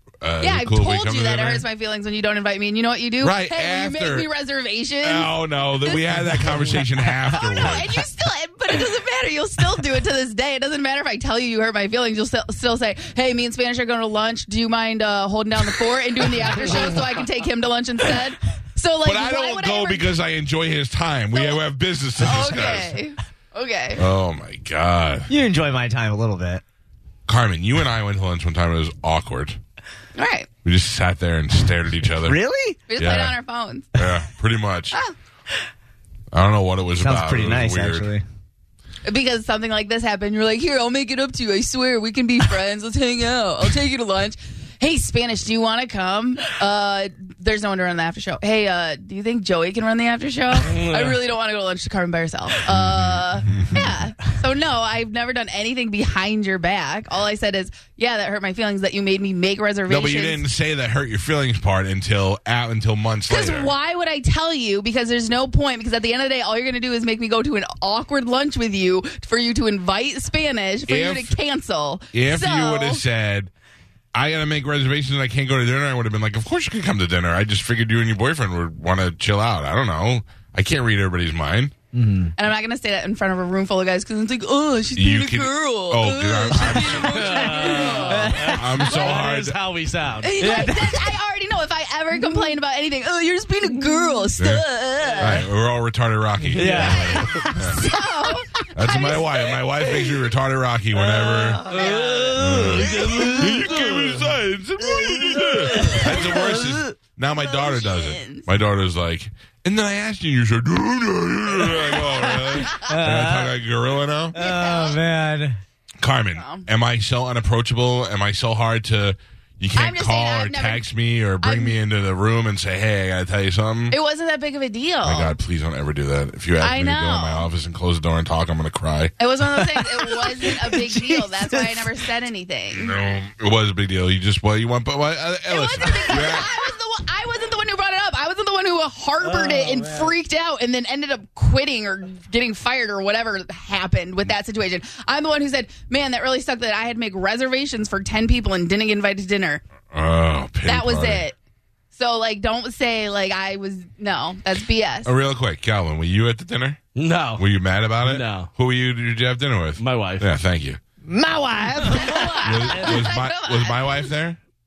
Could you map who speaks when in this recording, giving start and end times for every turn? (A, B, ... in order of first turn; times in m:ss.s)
0:00.2-0:01.6 A
0:00.4-0:20.2 B
0:03.2-0:04.3 A
0:05.0-0:08.0 A
0:19.0-0:23.0 A
0:21.4-0:21.6 B
0:22.2-0:24.0 B
0:24.0-0:25.3 A
0:25.3-0:26.6 C
0:27.3-0:29.6 A
0:30.2-0:30.5 B
0:30.6-0:32.4 A
0:32.2-0:32.8 C
0:32.9-0:34.0 B
0:33.0-0:33.4 A
0:34.0-0:35.0 A
0:36.3-0:38.1 A
0:37.0-0:38.2 C
0:39.0-1:00.4 B
0:50.6-0:51.2 D
0:52.7-0:53.9 A
0:59.9-1:03.7 A
1:03.3-1:13.0 B
1:10.9-1:11.4 A
1:12.1-1:13.5 A
1:14.1-1:21.7 A
1:21.9-1:22.4 C
1:22.4-1:28.9 B
1:25.0-1:29.6 A
1:26.9-1:30.7 D
1:27.9-1:28.6 C
1:30.2-1:35.5 B
1:30.4-1:31.0 C
1:34.4-1:34.6 A
1:35.2-1:37.8 A
1:36.6-1:37.8 C
1:36.6-1:37.5 D
1:36.8-1:40.2 B
1:38.8-1:41.7 A
1:41.6-1:43.1 B
1:41.7-1:44.2 D
1:41.9-1:43.8 C
1:42.4-1:54.4 A
1:44.8-1:47.0 C
1:47.3-1:48.5 B
1:52.3-1:53.5 C
1:54.3-1:55.6 C
1:54.4-1:55.0 B
1:56.0-2:04.0 A
1:56.4-1:56.7 B
1:59.7-2:00.9 B
2:01.4-2:01.8 B
2:03.9-2:05.4 B
2:05.0-2:09.1 A
2:06.6-2:07.5 B
2:09.2-2:13.0 B
2:09.5-2:11.9 C
2:12.7-2:16.5 A
2:15.5-2:29.6 B
2:19.5-2:19.8 C
2:29.9-2:31.2 A
2:30.6-2:31.4 B
2:31.9-2:35.1 B
2:35.0-2:36.8 A
2:37.0-2:37.5 D
2:37.4-2:40.8 A
2:38.0-2:38.5 D
2:39.8-2:40.3 D
2:41.1-2:42.4 C
2:41.9-2:43.0 D
2:41.9-2:44.1 B
2:42.4-2:44.4 A